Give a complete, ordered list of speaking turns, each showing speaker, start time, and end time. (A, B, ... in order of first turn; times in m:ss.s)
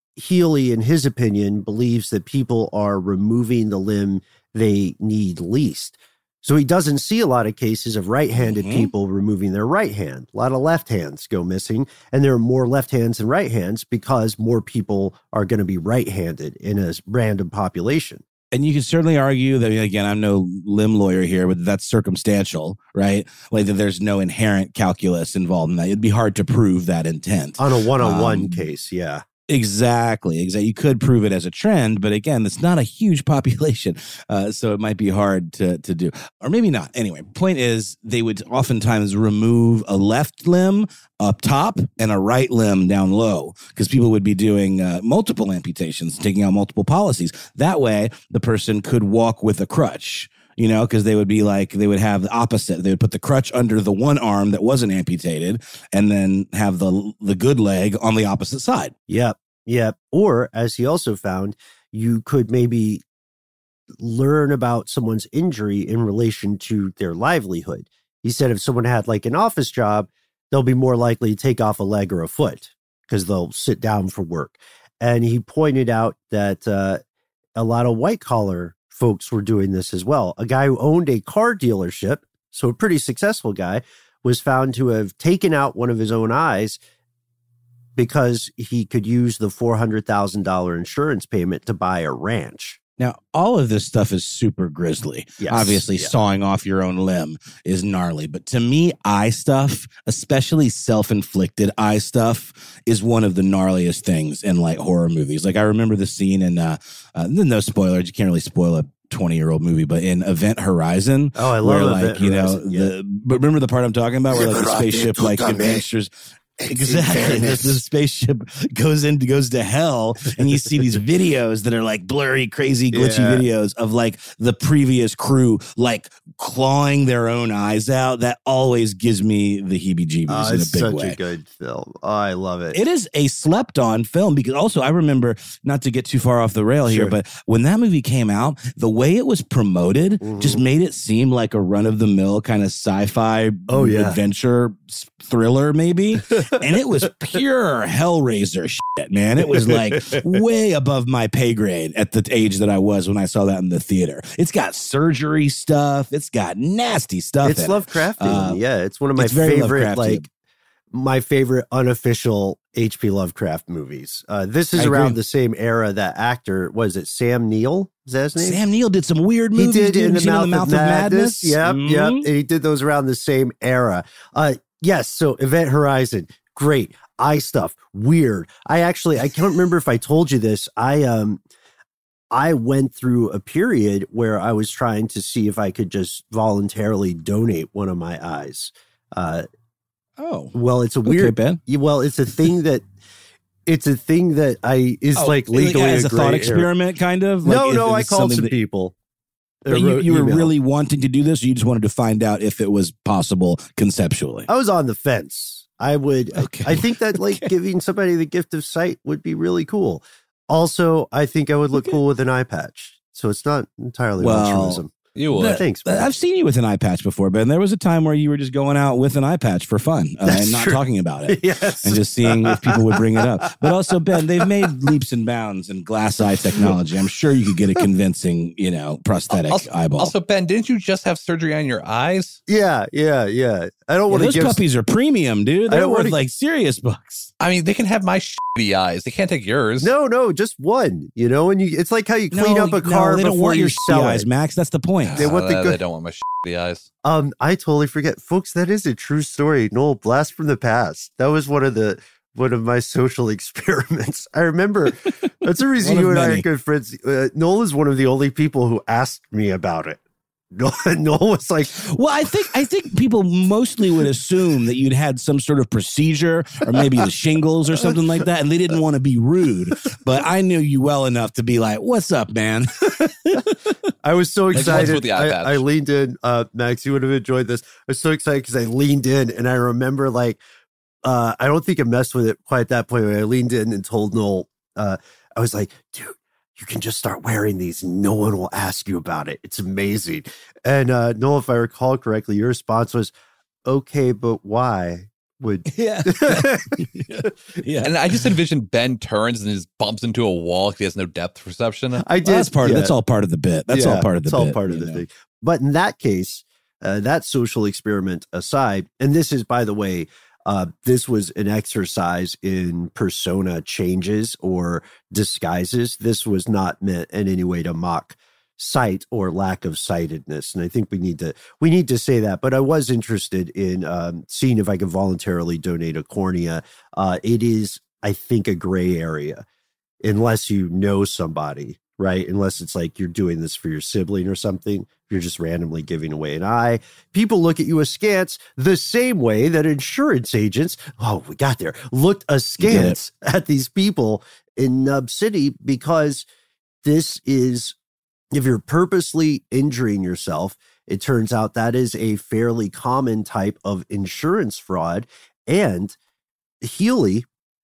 0:00.2-0:18.2 A
0:08.4-0:08.9 B
0:18.5-0:28.6 B
0:27.6-0:29.2 A
0:29.5-0:58.9 B
0:59.1-1:03.0 A
1:04.0-1:17.0 A
1:17.6-1:26.8 A
1:28.0-1:32.8 A
1:33.0-2:11.2 B
1:35.4-1:36.2 A
1:51.4-1:52.9 A
1:54.3-1:55.8 A
1:56.8-1:57.8 A
2:00.3-2:00.9 A
2:02.9-2:03.5 A
2:10.3-2:12.8 A
2:12.7-2:38.6 B
2:16.9-2:17.2 A
2:20.2-2:20.6 A
2:23.7-2:24.2 A
2:29.5-2:30.4 A
2:37.4-2:40.3 A
2:39.2-2:40.3 B
2:40.9-2:48.6 A
2:44.8-2:45.2 B
2:48.4-2:52.3 B
2:49.6-3:01.4 A
3:02.3-3:09.5 A
3:10.2-3:10.6 B
3:10.5-3:12.8 A
3:11.1-3:11.6 B
3:13.7-3:16.7 A
3:15.2-3:18.5 B
3:17.4-3:18.9 A
3:19.6-3:20.5 A
3:19.7-3:24.5 B
3:24.5-3:36.1 A
3:26.4-3:27.5 B
3:31.7-3:32.0 B
3:34.2-3:34.8 B
3:35.2-3:35.6 C
3:35.4-3:50.1 B
3:40.2-3:44.7 A
3:46.4-3:46.7 A
3:49.3-3:52.4 C
3:52.5-3:54.6 A
3:54.1-3:57.3 B
3:55.7-3:56.2 A
3:57.4-3:59.9 C
3:59.8-4:04.3 A
4:02.3-4:05.2 B
4:05.1-4:06.9 C
4:05.2-4:05.8 A
4:07.0-4:20.0 A
4:15.8-4:16.4 B
4:20.5-4:21.8 A
4:21.8-4:33.4 B
4:33.0-4:33.4 A
4:34.0-4:40.4 A
4:34.5-4:35.6 C
4:41.0-4:53.1 A
4:53.7-4:57.3 A
4:55.7-4:57.9 B
4:57.8-5:02.0 C
5:02.0-5:03.0 A
5:02.2-5:05.0 B
5:03.7-5:29.4 A
5:30.0-5:46.2 A
5:42.6-5:43.0 B
5:46.8-5:47.8 A
5:48.3-5:56.0 A
5:56.6-5:57.2 A